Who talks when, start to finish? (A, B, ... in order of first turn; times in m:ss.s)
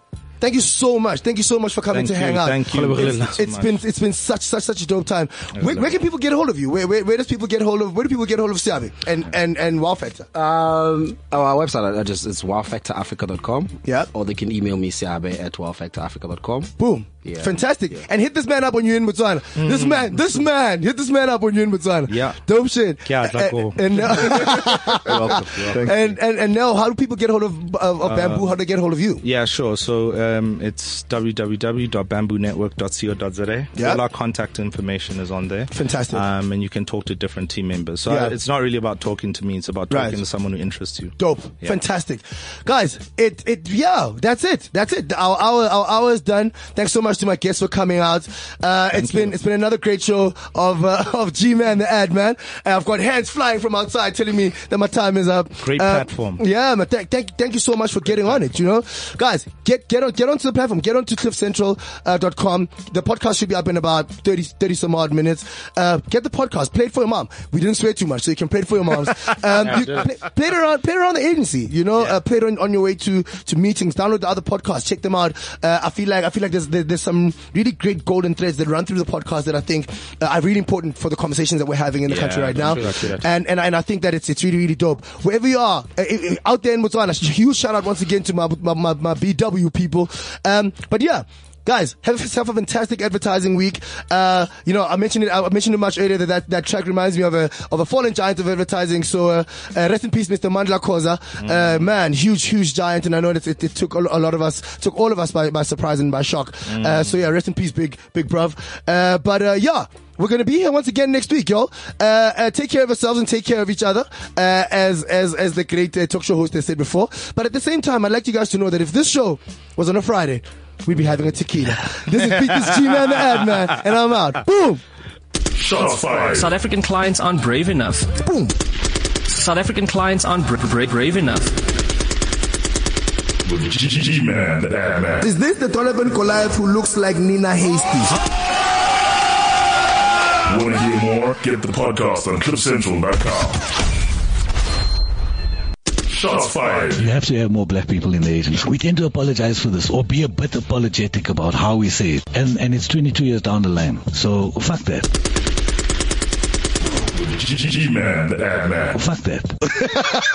0:00.4-0:10.3 A
0:01.9-0:03.8 B
0:02.7-0:03.4 C
0:05.5-0:06.0 B
0:10.3-0:18.0 C
0:16.8-0:29.2 A
0:19.6-0:20.1 B
0:22.1-0:22.4 B
0:23.0-0:26.0 B
0:24.3-0:26.1 C
0:28.0-0:28.5 B
0:29.2-0:41.8 B
0:33.8-0:34.0 A
0:35.7-0:36.2 A
0:38.1-0:38.4 A
0:39.9-0:40.2 A
0:41.2-2:04.8 A
0:49.0-0:49.3 B
0:55.6-0:56.4 B
1:09.6-1:10.1 C
1:22.1-1:23.3 C
1:22.6-1:23.0 B
1:41.4-1:41.8 B
1:46.7-1:47.2 B
2:05.6-2:06.5 D
2:06.3-2:08.1 E
2:08.2-2:08.5 A
2:09.3-2:11.6 E
2:13.4-2:15.2 D
2:15.2-2:18.2 A
2:20.5-2:23.6 D
2:26.1-2:27.1 D
2:27.0-2:35.1 F
2:37.1-2:39.0 D
2:38.9-2:39.5 F